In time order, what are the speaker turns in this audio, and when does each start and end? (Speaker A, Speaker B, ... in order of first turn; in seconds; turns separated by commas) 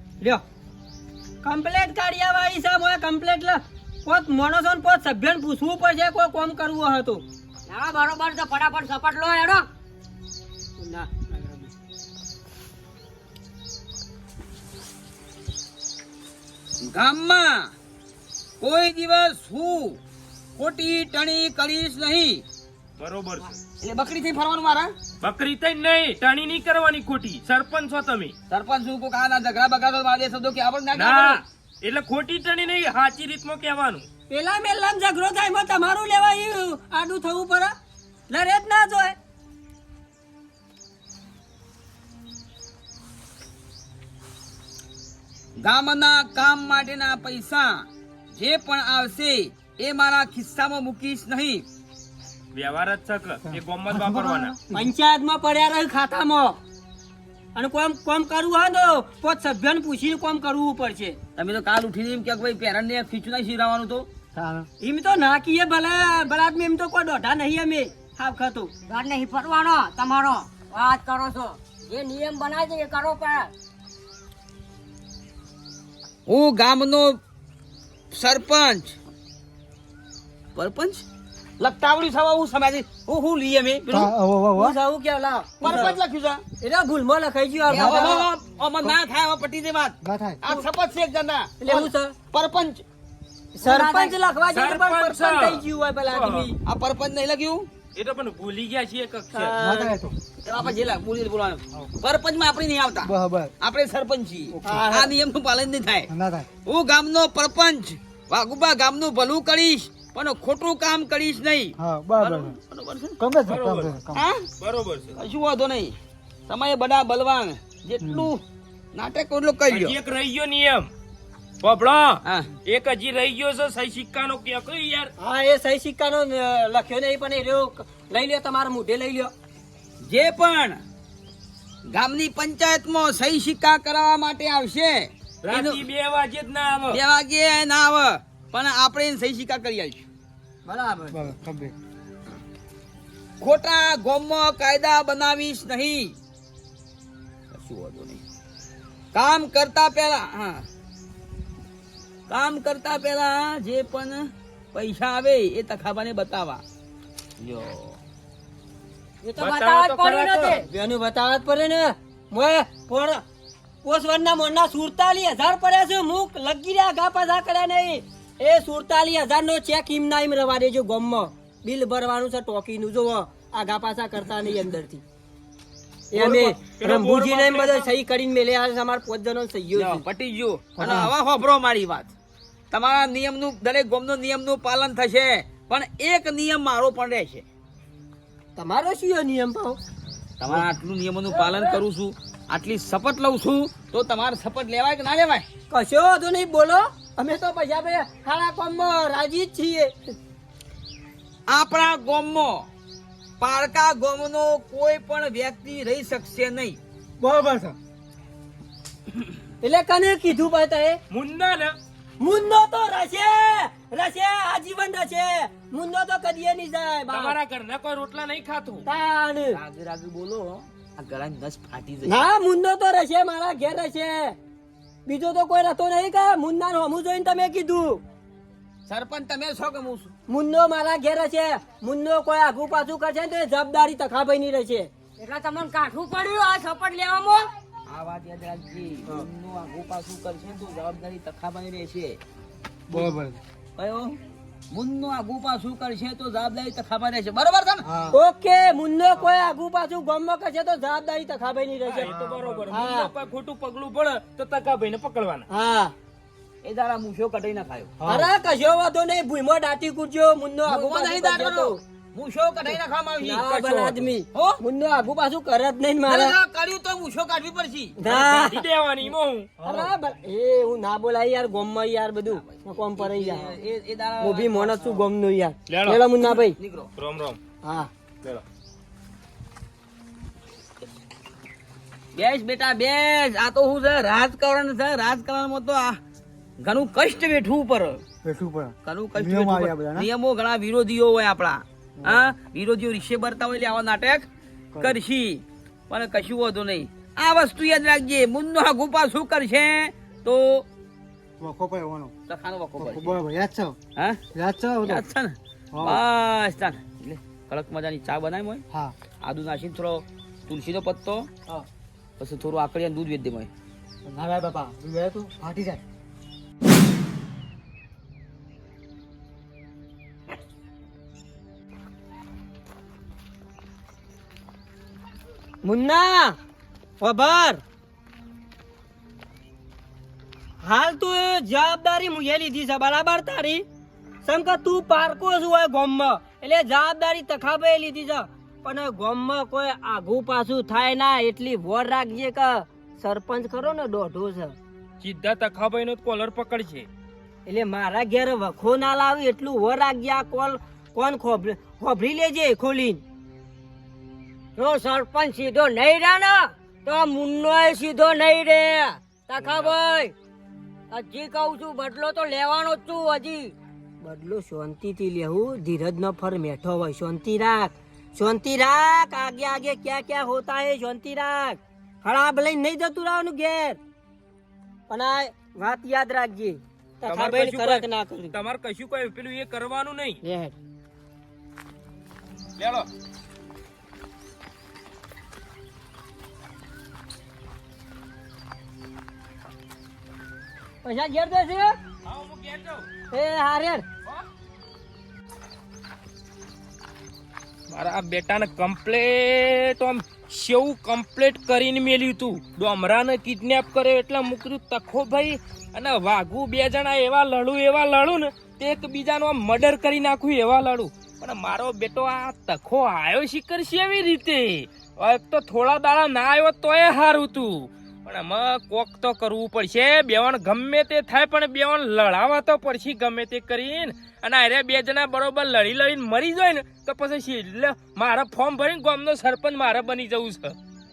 Speaker A: 1.4-7.2, Speaker B: 7.7-9.7, Speaker A: 10.8-11.7, Speaker C: 16.8-17.7, Speaker C: 18.6-20.0, Speaker C: 20.6-22.4, Speaker D: 23.0-23.6, Speaker C: 23.8-24.9, Speaker D: 25.2-28.3, Speaker C: 28.5-31.4, Speaker D: 30.9-34.0, Speaker A: 34.3-37.7, Speaker A: 38.3-39.1, Speaker C: 45.6-51.6, Speaker D: 52.5-54.6, Speaker E: 53.9-54.8, Speaker A: 54.7-56.6, Speaker A: 57.5-61.2, Speaker C: 61.4-64.1, Speaker E: 64.3-64.7, Speaker A: 64.8-68.7, Speaker B: 68.8-73.5, Speaker C: 76.3-77.2, Speaker C: 78.1-79.0, Speaker C: 80.5-81.0, Speaker C: 81.6-84.1, Speaker E: 83.9-84.8, Speaker A: 84.5-86.0, Speaker C: 85.6-86.4, Speaker A: 86.6-88.3, Speaker C: 87.7-92.8, Speaker E: 87.8-88.2, Speaker E: 90.0-90.6, Speaker A: 91.6-92.2, Speaker A: 93.5-96.5, Speaker B: 93.7-94.1, Speaker D: 94.5-96.5, Speaker C: 96.7-97.7, Speaker D: 98.0-99.5, Speaker A: 99.3-100.0, Speaker E: 99.6-100.2, Speaker C: 100.4-106.1, Speaker E: 103.0-103.5, Speaker E: 104.5-104.8, Speaker A: 104.6-105.1, Speaker E: 106.1-106.5, Speaker C: 106.6-113.2, Speaker E: 111.8-112.6, Speaker E: 113.2-114.2, Speaker D: 113.5-114.0, Speaker C: 114.1-114.5, Speaker D: 114.6-115.1, Speaker C: 115.2-116.0, Speaker C: 116.5-118.4, Speaker E: 118.0-118.3, Speaker C: 118.9-120.0, Speaker D: 119.7-120.9, Speaker D: 121.6-125.1, Speaker A: 125.2-129.3, Speaker C: 130.0-130.8, Speaker C: 131.9-135.8, Speaker D: 135.4-137.0, Speaker C: 136.9-140.1, Speaker A: 140.7-141.3, Speaker E: 141.1-141.7, Speaker C: 143.4-146.1, Speaker C: 147.5-148.2, Speaker C: 149.1-150.6, Speaker C: 152.3-156.6, Speaker C: 157.4-158.0, Speaker B: 159.2-160.6, Speaker D: 159.4-160.6, Speaker A: 160.6-163.2, Speaker A: 163.8-175.0, Speaker D: 176.1-177.9, Speaker A: 176.1-180.0, Speaker C: 179.8-182.1, Speaker A: 180.8-181.1, Speaker C: 182.7-187.4, Speaker A: 188.6-189.8, Speaker C: 190.4-195.4, Speaker A: 195.7-200.1, Speaker C: 201.5-202.7, Speaker C: 203.4-206.8, Speaker A: 207.2-207.8, Speaker A: 209.6-211.0, Speaker D: 211.1-211.7, Speaker A: 212.2-217.4, Speaker D: 217.1-218.8, Speaker A: 218.8-219.6, Speaker C: 219.5-222.2, Speaker A: 222.1-224.3, Speaker A: 225.1-228.0, Speaker C: 228.9-230.1, Speaker A: 230.3-234.9, Speaker B: 235.2-237.5, Speaker C: 237.8-242.2, Speaker E: 242.9-243.4, Speaker C: 243.8-244.2, Speaker C: 244.7-247.9, Speaker E: 247.8-248.2, Speaker A: 248.1-252.1, Speaker D: 251.8-255.4, Speaker E: 252.0-252.7, Speaker A: 252.7-253.1, Speaker A: 255.5-255.9, Speaker C: 256.6-257.9, Speaker E: 258.0-258.3, Speaker A: 258.1-261.8, Speaker C: 260.6-263.8, Speaker A: 263.2-266.4, Speaker D: 263.7-264.1, Speaker C: 264.3-264.6, Speaker C: 266.1-267.9, Speaker A: 268.0-268.6, Speaker D: 268.0-269.5, Speaker E: 269.6-269.9, Speaker A: 269.6-273.5, Speaker C: 272.3-275.0, Speaker A: 274.2-276.6, Speaker D: 275.7-276.1, Speaker C: 276.2-276.9, Speaker D: 277.0-277.4, Speaker A: 277.6-277.9, Speaker C: 282.1-286.0, Speaker C: 286.6-288.0, Speaker E: 288.2-290.1, Speaker C: 288.8-294.3, Speaker E: 294.7-295.0, Speaker C: 294.8-300.6, Speaker E: 301.4-302.1, Speaker C: 302.3-303.2, Speaker E: 302.8-303.8, Speaker C: 303.9-304.2, Speaker E: 304.3-305.0, Speaker C: 304.8-308.6, Speaker E: 305.7-306.0, Speaker E: 308.7-308.9, Speaker C: 309.2-311.3, Speaker C: 312.2-313.5, Speaker E: 314.1-315.8, Speaker A: 325.6-326.4, Speaker A: 327.0-327.6, Speaker A: 330.6-333.6, Speaker A: 334.2-344.6, Speaker D: 345.0-346.9, Speaker A: 347.4-353.0, Speaker B: 354.6-360.1, Speaker D: 359.4-359.8, Speaker B: 360.9-363.5, Speaker A: 364.0-373.8, Speaker A: 374.9-378.3, Speaker D: 377.0-380.2, Speaker A: 380.2-380.5, Speaker D: 382.6-382.9, Speaker A: 390.8-391.7, Speaker D: 392.0-392.9, Speaker A: 393.1-393.8, Speaker D: 397.7-430.6